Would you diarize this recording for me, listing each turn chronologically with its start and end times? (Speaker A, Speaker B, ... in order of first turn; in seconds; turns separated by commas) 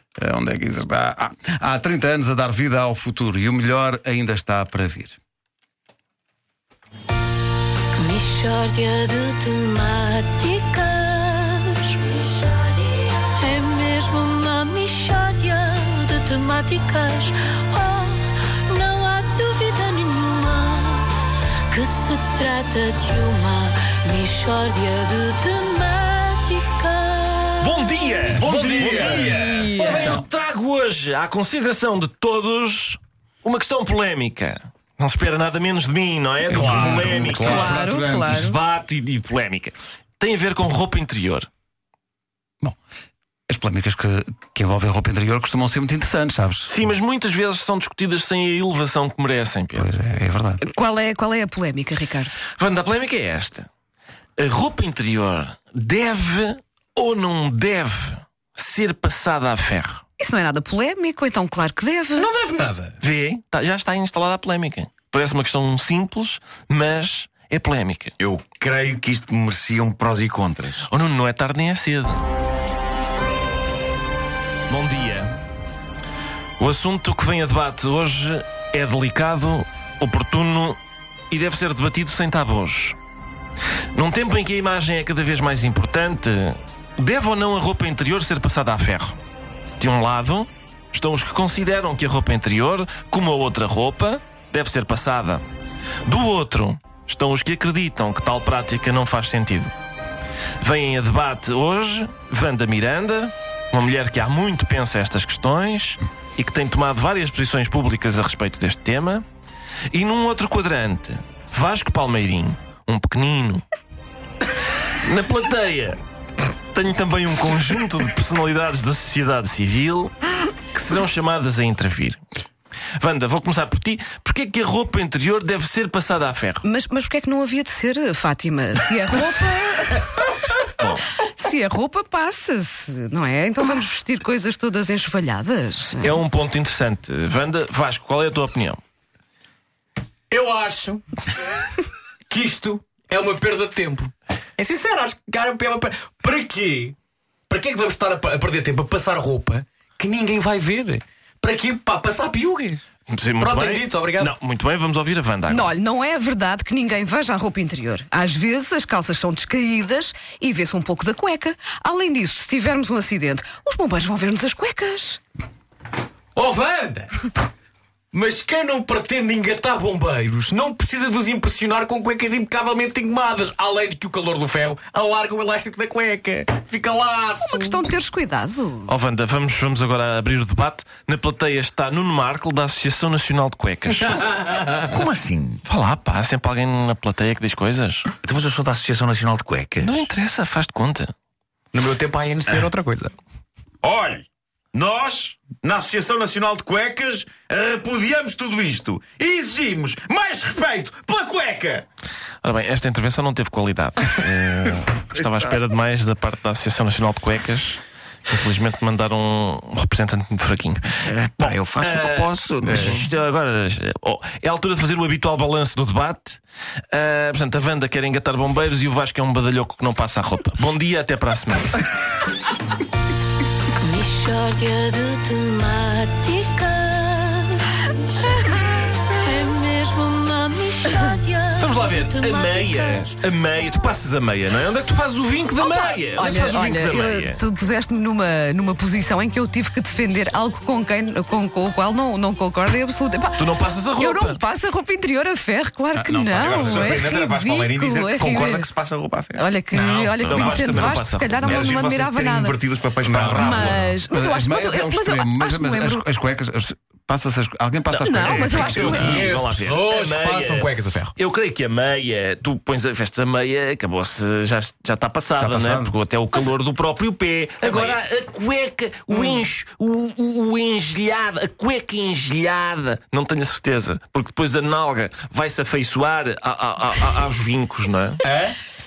Speaker A: 0.2-5.2, Speaker B: 8.0-21.1, Speaker B: 21.7-27.7, Speaker C: 27.6-41.5, Speaker D: 28.3-30.2, Speaker A: 28.5-29.3, Speaker E: 29.3-30.2, Speaker A: 36.5-38.4, Speaker E: 37.2-38.6, Speaker A: 43.5-46.7, Speaker C: 46.6-49.9, Speaker A: 49.8-50.6, Speaker E: 50.6-52.4, Speaker C: 52.5-53.7, Speaker C: 54.4-60.0, Speaker E: 60.2-62.3, Speaker D: 62.1-63.0, Speaker C: 63.0-68.1, Speaker F: 68.2-70.9, Speaker C: 70.9-72.3, Speaker C: 74.7-75.3, Speaker C: 76.6-80.8, Speaker C: 81.3-83.0, Speaker C: 83.9-89.2, Speaker C: 89.8-95.4, Speaker C: 96.1-99.7, Speaker C: 100.6-109.2, Speaker C: 109.9-113.6, Speaker C: 115.0-116.0, Speaker C: 116.7-120.2, Speaker C: 120.7-122.2, Speaker C: 123.0-126.6, Speaker E: 126.6-130.3, Speaker C: 130.8-131.1, Speaker E: 131.1-136.2, Speaker C: 136.0-138.8, Speaker D: 140.3-141.0, Speaker D: 142.3-147.0, Speaker D: 147.5-152.8, Speaker C: 153.1-155.7, Speaker D: 153.4-154.3, Speaker E: 155.5-165.2, Speaker D: 166.4-167.2, Speaker D: 168.1-177.9, Speaker E: 177.4-178.9, Speaker C: 178.9-184.2, Speaker D: 184.1-184.9, Speaker F: 184.8-185.6, Speaker C: 185.7-188.1, Speaker F: 188.2-190.1, Speaker C: 189.8-191.1, Speaker D: 191.7-193.2, Speaker F: 193.8-201.8, Speaker C: 202.4-216.4, Speaker F: 211.0-213.1, Speaker A: 212.7-213.0, Speaker C: 216.9-221.9, Speaker B: 223.8-233.1, Speaker C: 231.6-237.4, Speaker E: 235.6-248.7, Speaker C: 243.4-244.4, Speaker A: 245.9-247.1, Speaker F: 246.4-249.4, Speaker E: 249.4-252.6, Speaker C: 249.8-251.7, Speaker F: 251.4-253.9, Speaker A: 253.1-259.3, Speaker E: 253.3-256.0, Speaker E: 257.9-259.2, Speaker C: 258.3-278.2, Speaker D: 258.5-261.1, Speaker A: 265.4-265.9, Speaker E: 269.1-269.4, Speaker D: 278.2-278.6